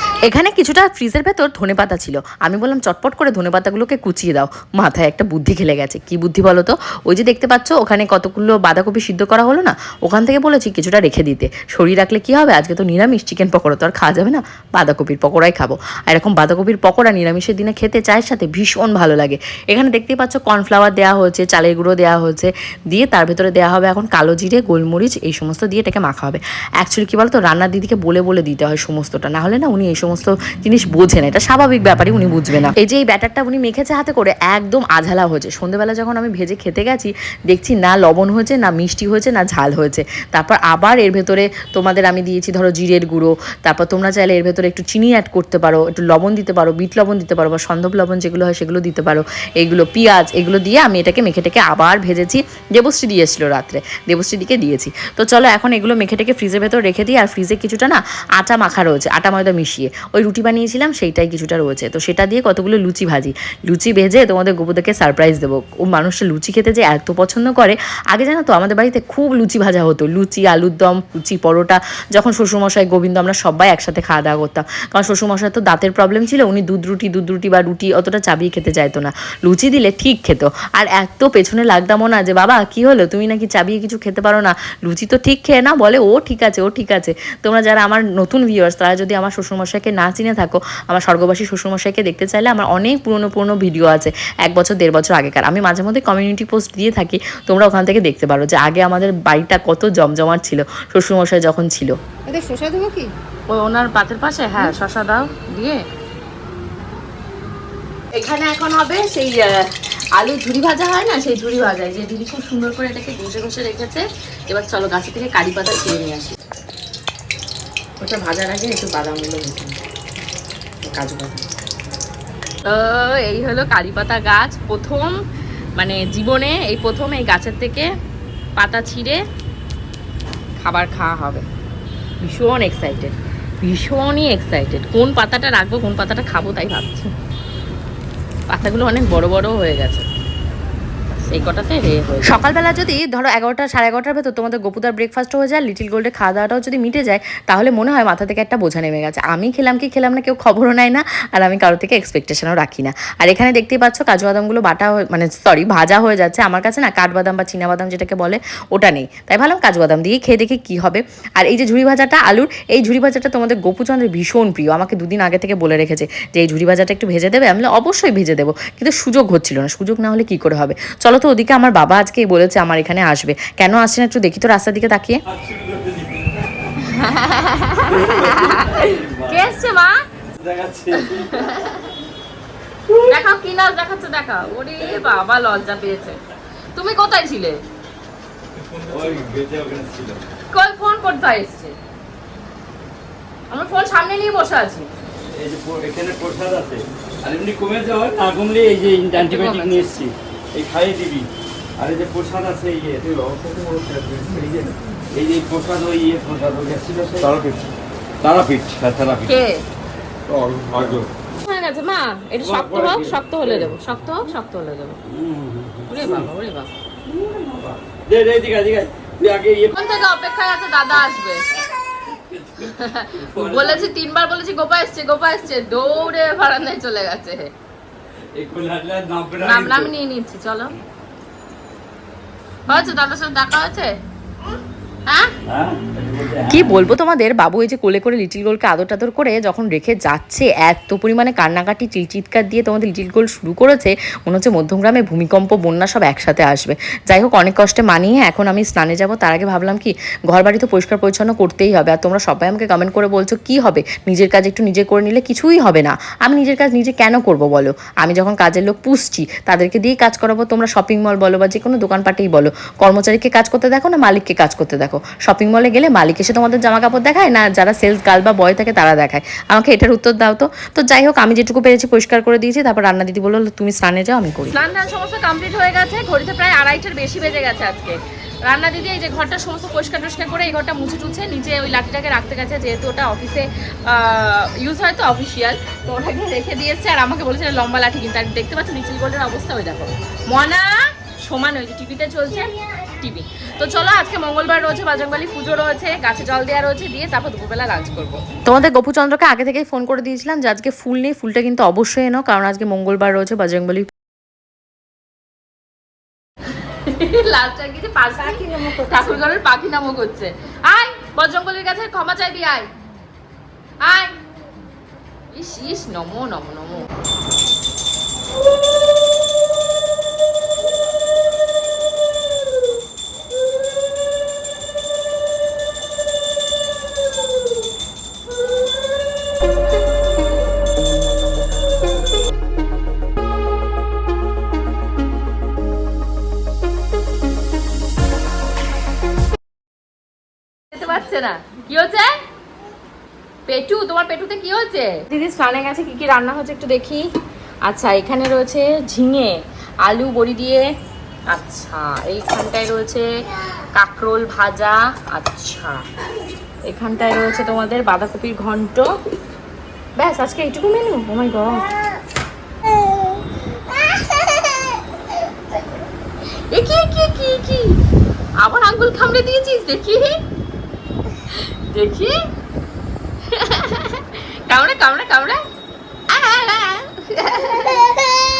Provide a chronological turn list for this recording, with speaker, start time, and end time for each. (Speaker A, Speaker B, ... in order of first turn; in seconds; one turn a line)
Speaker A: 0.2-101.9
Speaker B: 102.3-105.8
Speaker B: 108.1-116.4
Speaker B: 118.0-119.8
Speaker B: 120.8-121.4
Speaker B: 122.7-125.2
Speaker B: 125.8-127.9
Speaker B: 128.6-129.2
Speaker B: 130.6-131.4
Speaker B: 132.2-137.1
Speaker B: 138.5-140.1
Speaker B: 141.2-142.4
Speaker A: 142.2-175.2
Speaker C: 175.3-176.9
Speaker B: 176.8-180.0
Speaker C: 177.8-179.4
Speaker C: 180.3-181.4
Speaker B: 180.9-181.9
Speaker B: 183.1-186.2
Speaker B: 186.7-187.6
Speaker C: 188.8-190.3
Speaker B: 190.5-191.7
Speaker B: 193.5-194.9
Speaker C: 195.3-201.3
Speaker B: 199.2-199.9
Speaker C: 201.8-207.6
Speaker C: 208.2-209.3
Speaker B: 209.2-209.6
Speaker C: 210.3-211.1
Speaker B: 211.4-215.0
Speaker C: 212.4-213.8
Speaker C: 215.1-216.3
Speaker B: 215.9-216.7
Speaker C: 217.0-219.7
Speaker B: 219.7-221.4
Speaker C: 221.7-223.9
Speaker B: 222.6-227.5
Speaker C: 228.3-229.9
Speaker B: 229.4-230.7
Speaker B: 232.7-233.9
Speaker B: 235.1-235.3
Speaker C: 235.4-236.8
Speaker A: 236.5-274.6
Speaker B: 274.5-298.2
Speaker A: 298.4-303.9
Speaker B: 306.5-312.7
Speaker B: 313.8-314.2
Speaker B: 315.3-316.9
Speaker B: 340.7-342.1
Speaker B: 343.5-347.1
Speaker B: 347.6-350.7
Speaker B: 351.3-353.1
Speaker B: 353.8-355.8
Speaker B: 356.6-358.9
Speaker B: 359.9-361.7
Speaker B: 363.7-364.8
Speaker B: 366.5-367.8
Speaker B: 368.4-370.2
Speaker B: 371.2-372.1
Speaker B: 373.3-375.4
Speaker B: 376.1-378.0